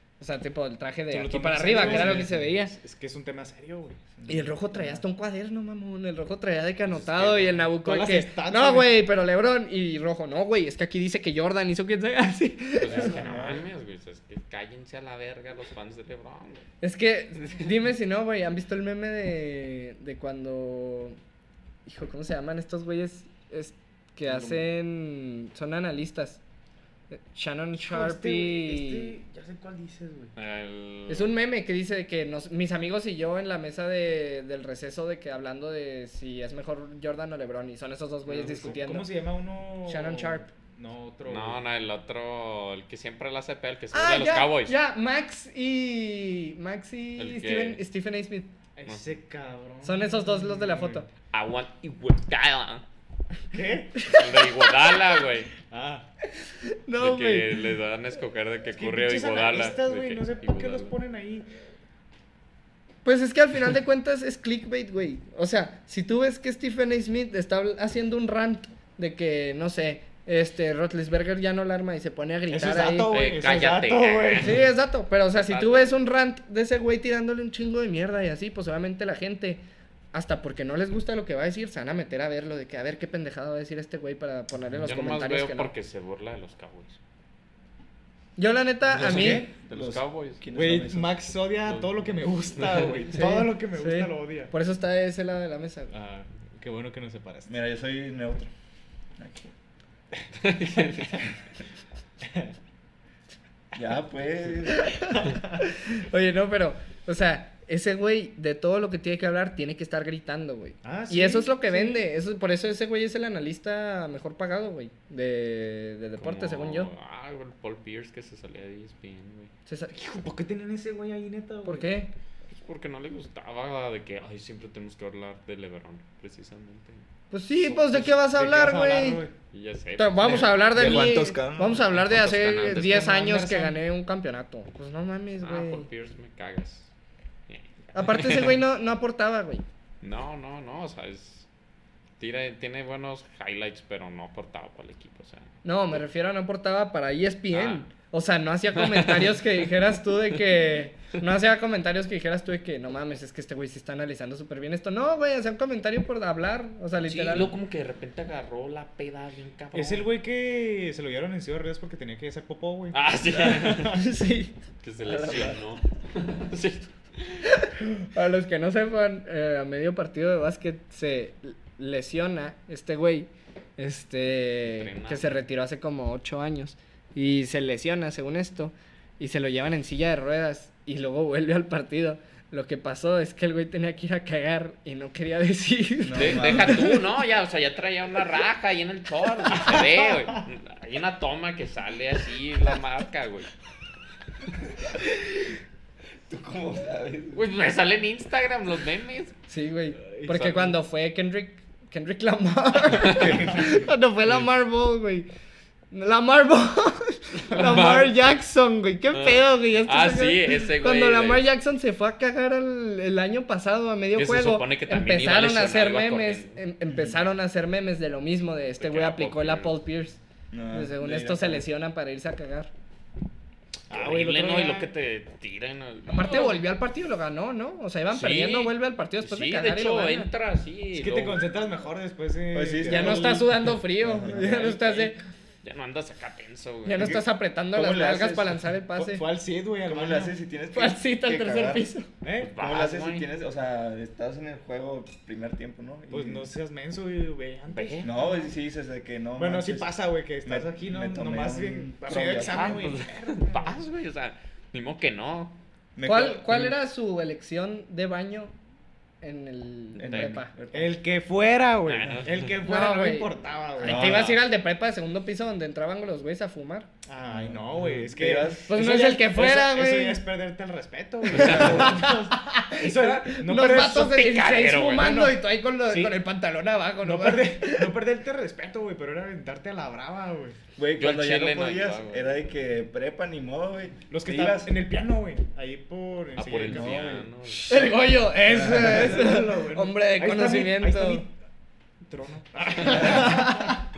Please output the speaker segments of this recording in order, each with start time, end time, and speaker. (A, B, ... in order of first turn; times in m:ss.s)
0:00.2-0:02.7 A
0:01.1-0:04.0 B
0:01.8-0:02.2 C
0:04.2-0:05.0 C
0:04.3-0:13.2 A
0:06.9-0:09.0 B
0:12.8-0:16.6 D
0:12.8-0:13.7 C
0:16.8-0:21.2 A
0:21.8-0:26.4 A
0:24.3-0:24.6 D
0:27.1-0:29.2 A
0:27.8-0:30.3 B
0:30.4-0:31.3 D
0:31.1-0:39.1 A
0:38.3-0:41.6 B
0:39.8-0:40.5 A
0:41.2-0:44.7 D
0:43.9-0:48.5 A
0:47.2-0:47.8 D
0:48.8-0:51.1 B
0:49.8-0:51.0 A
0:51.3-0:52.8 D
0:53.5-0:54.1 B
0:54.0-0:54.5 A
0:54.1-0:55.5 D
0:55.5-0:56.0 B
0:56.7-0:57.6 A
0:57.0-1:00.9 D
0:58.7-1:01.5 B
1:03.0-1:13.1 A
1:12.5-1:14.7 B
1:13.1-1:14.6 D
1:14.4-1:19.6 A
1:15.3-1:15.9 D
1:20.1-1:25.7 A
1:24.8-1:27.0 D
1:28.4-1:29.5 A
1:28.9-1:30.4 D
1:29.0-1:31.2 C
1:30.5-1:34.5 B
1:31.6-1:33.1 D
1:33.1-1:35.9 A
1:35.9-1:37.5 B
1:37.5-1:38.5 C
1:39.2-1:39.5 C
1:40.4-1:41.3 D
1:42.2-1:42.5 B
1:43.7-1:45.0 C
1:44.7-1:45.1 A
1:45.1-1:45.6 B
1:45.6-1:56.9 A
1:50.8-1:52.1 B
1:56.2-1:59.5 D
1:59.7-2:00.0 A
1:59.9-2:01.9 B
2:01.6-2:02.1 A
2:02.5-2:07.0 D
2:07.3-2:09.2 A
2:07.6-2:09.3 B
2:09.5-2:10.6 D
2:10.0-2:15.9 A
2:10.2-2:11.8 C
2:11.6-2:13.6 D
2:12.9-2:13.7 B
2:15.4-2:16.9 D
2:17.5-2:18.6 D
2:17.9-2:19.6 A
2:20.0-2:21.5 D
2:22.2-2:25.5 D
2:25.6-2:37.5 A
2:27.5-2:27.8 D
2:28.8-2:29.5 D
2:37.0-2:40.1 D
2:39.7-2:43.0 B
2:42.9-2:44.0 D
2:43.5-2:44.1 B
2:43.9-2:44.5 A
2:44.8-2:47.5 D
2:45.0-2:45.6 C
2:47.5-3:07.0 A
2:54.7-2:55.4 D
3:06.0-3:07.0 C
3:06.1-3:13.5 D
3:09.5-3:10.4 B
3:14.8-3:15.6 C
3:16.3-3:17.4 C
3:17.3-3:19.3 D
3:19.5-3:25.3 A
3:20.0-3:20.8 B
3:22.9-3:23.8 C
3:23.0-3:23.3 D
3:25.9-3:40.2 A
3:27.5-3:28.3 D
3:29.1-3:31.5 D
3:34.2-3:36.6 D
3:38.8-3:39.8 D
3:40.5-3:41.7 C
3:40.7-3:42.7 A
3:43.9-3:44.9 B
3:43.9-3:46.7 D
3:46.1-3:50.3 A
3:48.1-3:51.5 D
3:50.9-3:53.8 B
3:52.5-3:53.4 C
3:52.9-3:55.2 A
3:54.0-3:54.7 C
3:55.6-3:57.1 D
3:56.8-3:59.2 A
3:57.0-3:58.6 C
3:58.9-4:00.3 B
3:59.8-4:01.9 C
4:00.7-4:02.1 A
4:02.2-4:02.6 B
4:02.4-4:03.3 D
4:02.6-4:06.5 C
4:06.1-4:08.3 B
4:07.7-4:08.1 D
4:08.0-4:12.9 C
4:09.4-4:13.8 B
4:12.2-4:15.6 D
4:16.0-4:16.7 C
4:16.0-4:18.5 A
4:19.2-4:20.5 A
4:19.9-4:20.4 D
4:20.0-4:21.0 C
4:20.7-4:24.2 B
4:21.8-4:22.5 D
4:22.6-4:26.9 A
4:23.8-4:24.4 C
4:24.0-4:24.4 D
4:27.1-4:34.3 B
4:27.2-4:28.7 C
4:28.7-4:30.2 A
4:31.3-4:32.1 D
4:31.3-4:37.9 A
4:31.6-4:32.0 C
4:33.9-4:35.3 D
4:35.0-4:36.2 B
4:37.0-4:40.6 B
4:40.8-4:44.7 C
4:41.0-4:42.4 D
4:44.1-4:47.2 B
4:46.4-4:47.9 D
4:46.7-4:47.2 C
4:47.7-4:51.2 A
4:48.5-4:51.3 B
4:48.5-4:49.0 C
4:52.0-4:53.8 B
4:53.0-4:53.6 A